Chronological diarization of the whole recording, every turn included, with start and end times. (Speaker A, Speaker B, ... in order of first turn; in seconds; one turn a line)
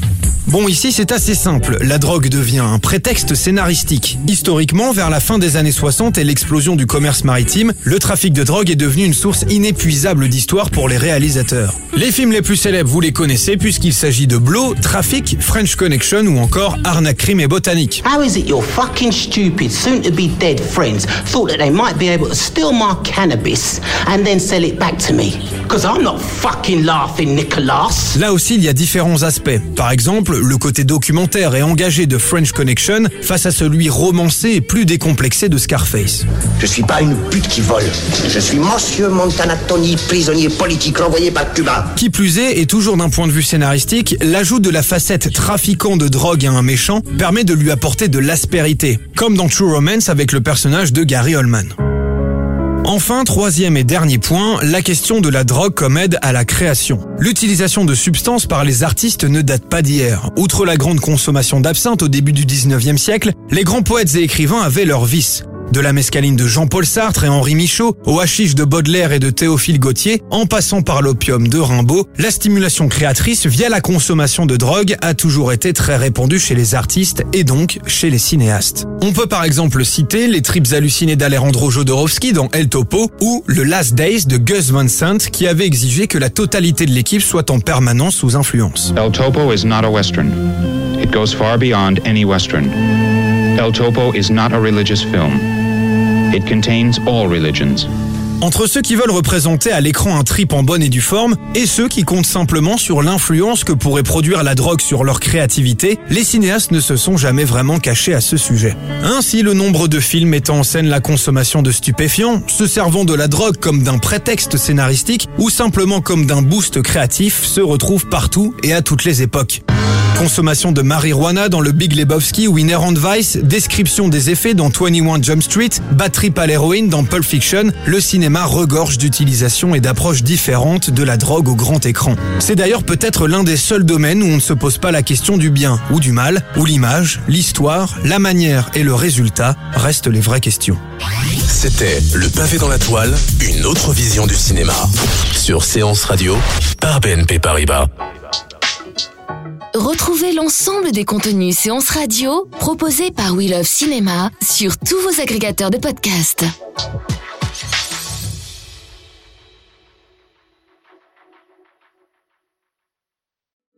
Speaker A: 0.5-18.0
Speaker B: 18.0-28.1
Speaker A: 28.1-36.2
Speaker C: 36.6-41.9
Speaker A: 42.0-51.7
Speaker A: 52.8-88.9
Speaker D: 88.9-90.4
Speaker D: 91.0-92.7
Speaker D: 93.5-95.5
Speaker D: 96.3-97.9
Speaker A: 98.4-119.6
Speaker A: 120.1-140.8
Speaker E: 141.5-147.9
Speaker F: 149.7-156.5